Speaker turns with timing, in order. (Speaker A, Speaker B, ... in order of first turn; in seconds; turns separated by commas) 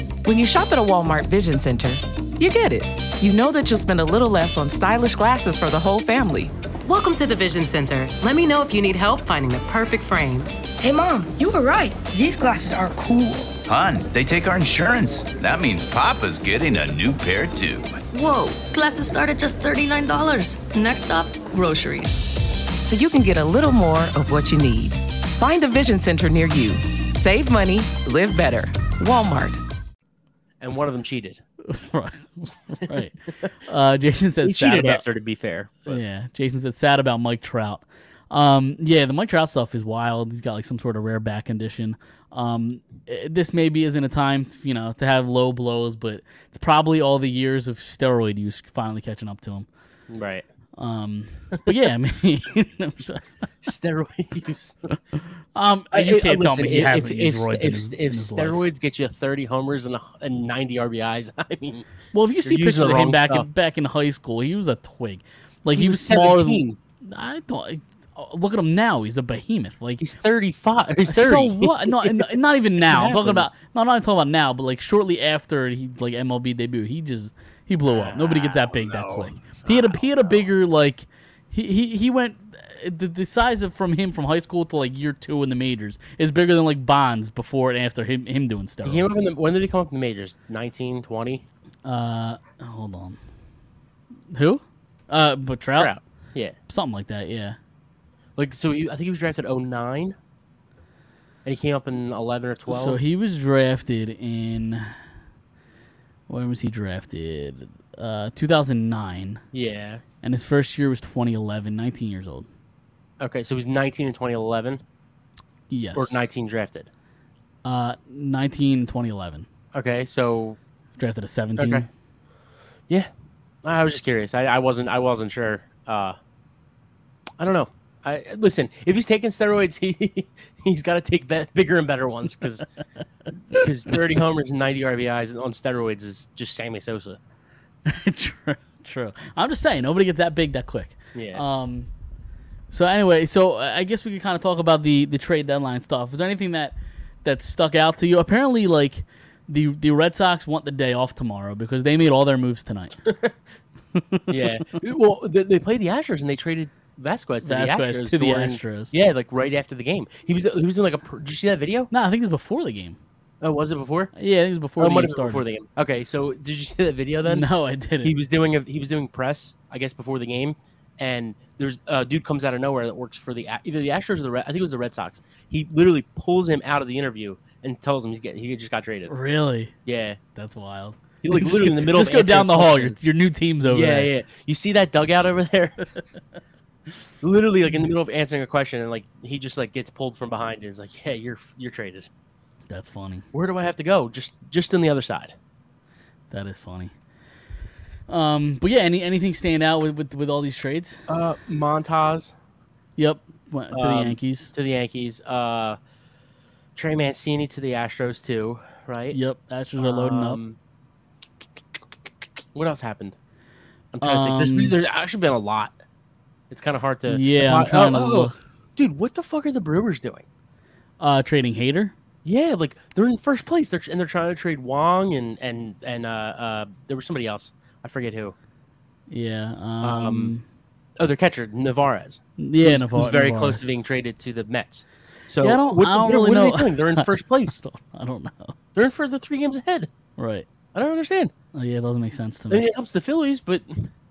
Speaker A: 0.2-6.5, Speaker B: 6.9-10.6, Speaker C: 10.8-13.6, Speaker D: 13.7-18.0, Speaker E: 18.1-22.3, Speaker A: 22.8-29.6, Speaker F: 30.6-31.4, Speaker G: 31.7-35.0, Speaker F: 34.4-36.0, Speaker G: 35.9-49.7, Speaker F: 50.1-50.5, Speaker G: 50.8-53.2, Speaker F: 53.6-54.8, Speaker G: 55.5-58.6, Speaker F: 55.9-61.9, Speaker G: 62.1-70.0, Speaker F: 62.4-63.5, Speaker F: 65.7-66.8, Speaker F: 70.0-73.5, Speaker G: 71.1-89.2, Speaker F: 77.9-80.5, Speaker F: 88.8-91.5, Speaker G: 91.8-93.2, Speaker G: 94.3-95.9, Speaker F: 95.8-96.5, Speaker G: 96.7-97.6, Speaker F: 98.4-100.2, Speaker F: 101.5-103.0, Speaker G: 102.7-105.0, Speaker G: 106.3-109.4, Speaker F: 109.5-110.0, Speaker G: 110.2-112.5, Speaker F: 113.2-114.8, Speaker G: 115.7-116.3, Speaker F: 116.0-116.9, Speaker G: 117.6-119.5, Speaker F: 119.7-120.6, Speaker G: 121.0-121.9, Speaker F: 121.6-121.9, Speaker F: 123.6-126.2, Speaker F: 127.4-132.7, Speaker F: 133.5-137.2, Speaker G: 137.9-141.9, Speaker F: 141.2-141.4, Speaker G: 142.7-153.1, Speaker G: 153.9-154.4, Speaker F: 154.3-161.9, Speaker G: 157.4-158.9, Speaker G: 161.9-163.0, Speaker F: 163.4-164.1, Speaker G: 164.2-165.4, Speaker F: 164.8-167.5, Speaker G: 167.3-168.1, Speaker F: 168.0-179.1, Speaker G: 179.1-179.8, Speaker F: 179.9-180.2, Speaker G: 180.3-184.1, Speaker F: 181.2-183.0, Speaker F: 183.7-186.0, Speaker F: 187.2-192.1, Speaker G: 192.7-193.2, Speaker F: 193.3-195.3, Speaker G: 196.3-196.9, Speaker G: 198.1-201.0, Speaker F: 201.1-202.3, Speaker G: 203.0-204.5, Speaker F: 203.7-205.8, Speaker F: 206.8-209.2, Speaker G: 209.1-210.4, Speaker F: 209.8-210.6, Speaker F: 212.6-213.2, Speaker F: 213.9-215.8, Speaker G: 214.0-214.8, Speaker F: 216.5-220.2, Speaker G: 217.1-218.3, Speaker G: 221.0-221.9, Speaker F: 222.2-228.3, Speaker G: 229.1-230.4, Speaker F: 229.8-230.3, Speaker F: 231.0-237.6, Speaker G: 232.4-233.8, Speaker G: 235.4-237.1, Speaker G: 237.6-238.6, Speaker F: 238.8-239.9, Speaker G: 240.2-240.5, Speaker F: 240.7-241.3, Speaker G: 241.5-242.7, Speaker F: 242.5-243.9